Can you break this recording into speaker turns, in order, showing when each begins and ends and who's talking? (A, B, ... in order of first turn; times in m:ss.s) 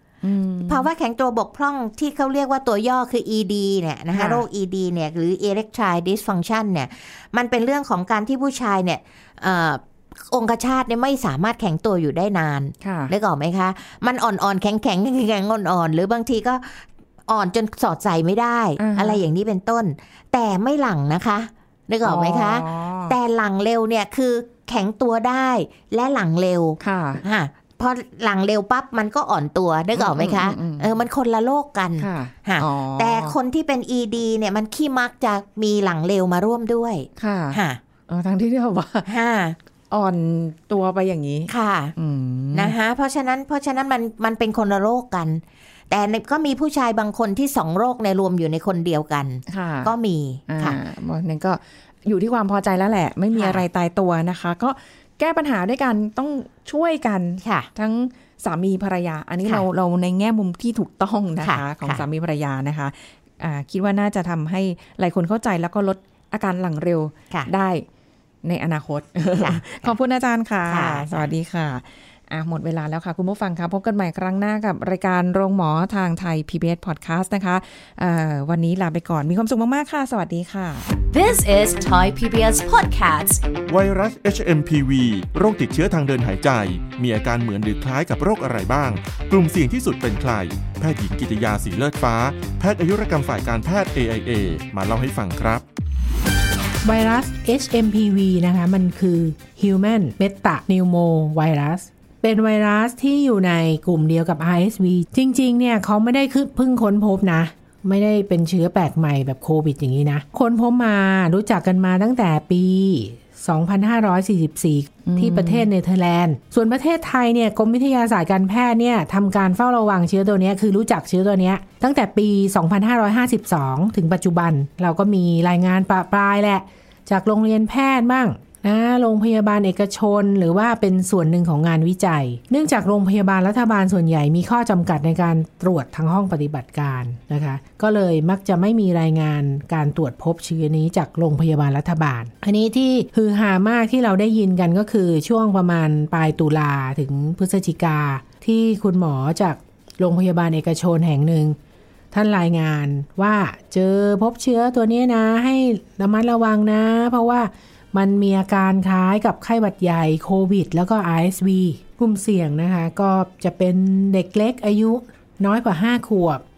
0:00.2-0:00.8 A
0:00.7-0:37.8 B
0:04.1-0:04.4 A
0:12.8-0:13.1 A
0:18.8-0:19.2 A
0:22.0-0:23.2 A
0:26.8-0:27.2 A
0:30.0-0:30.9 A
0:32.0-0:33.4 A
0:37.2-0:39.1 A
0:39.0-0:39.6 B
0:39.9-0:42.7 A
0:41.5-0:41.9 B
0:42.5-0:50.8 B
0:49.5-0:49.9 A
0:50.5-1:07.8 A
0:53.3-0:53.6 B
0:57.4-0:57.7 B
1:01.4-1:02.0 B
1:08.4-1:20.9 A
1:09.4-1:09.6 B
1:10.7-1:11.1 B
1:21.1-1:23.4 C
1:23.7-1:35.6 D
1:36.8-2:31.6 E
1:55.0-1:55.7 A
2:32.1-2:46.4 E